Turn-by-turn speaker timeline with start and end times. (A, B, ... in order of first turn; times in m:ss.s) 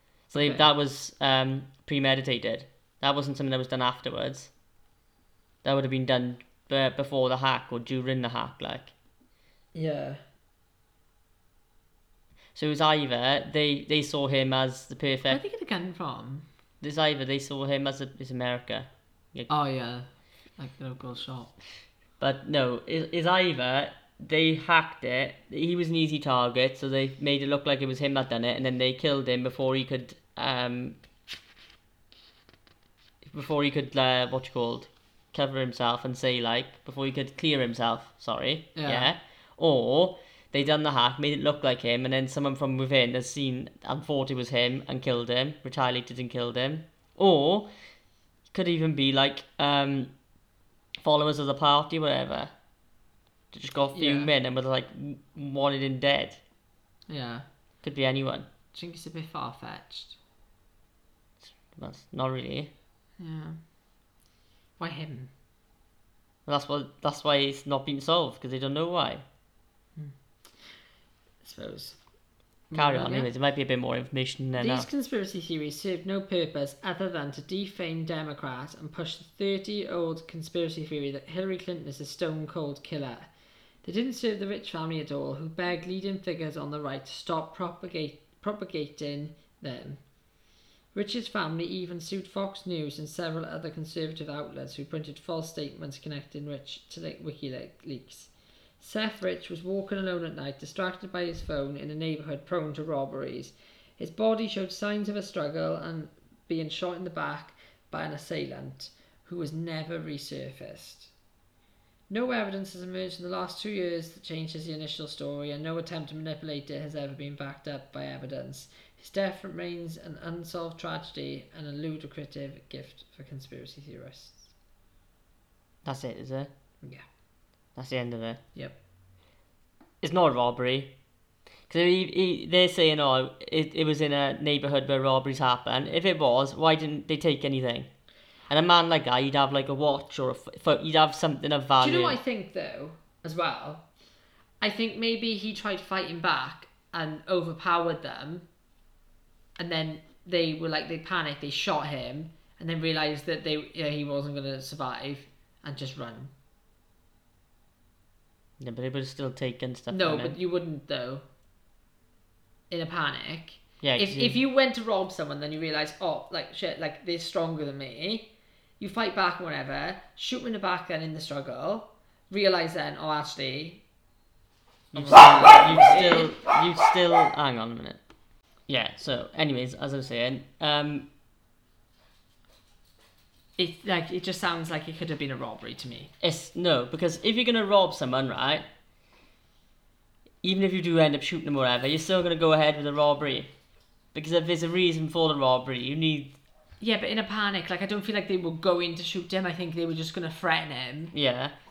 0:00.3-0:04.5 A
0:00.3-0:00.6 B
0:05.6-0:08.9 A
0:09.7-0:10.2 B
0:12.5-0:15.4 A
0:15.3-0:16.4 B
0:16.8-0:19.5 A
0:19.5-0:21.5 B
0:22.2-0:31.0 A
0:33.2-0:47.7 A
0:38.7-0:39.1 B
0:48.5-0:50.1 A
0:51.0-0:52.5 A
0:53.5-0:56.4 A
0:53.9-0:54.3 B
0:57.1-0:57.4 B
0:57.8-0:58.5 A
0:58.7-1:00.2 B
1:01.4-1:02.7 A
1:03.2-1:03.6 B
1:04.8-1:05.3 B
1:06.4-1:09.2 A
1:10.0-1:10.7 B
1:11.4-1:12.0 B
1:12.7-1:13.3 B
1:12.7-1:14.9 A
1:14.6-1:23.3 B
1:23.8-1:30.0 B
1:30.9-1:51.1 B
1:52.1-2:04.5 B
2:05.8-2:06.5 A
2:07.8-2:08.4 A
2:10.0-2:10.9 A
2:11.7-2:17.9 A
2:18.5-2:22.2 A
2:21.8-2:23.8 B
2:24.6-2:28.4 B
2:29.6-2:36.3 B
2:38.6-2:40.4 A
2:39.9-2:41.2 B
2:42.7-2:53.8 B
2:43.8-2:44.4 A
2:54.9-2:58.0 A
2:54.9-2:56.3 B
2:58.7-3:01.1 A
3:03.6-3:06.1 B
3:06.2-3:08.6 A
3:10.4-3:13.5 A
3:14.1-3:16.4 A
3:16.8-3:21.1 B
3:21.1-3:21.5 A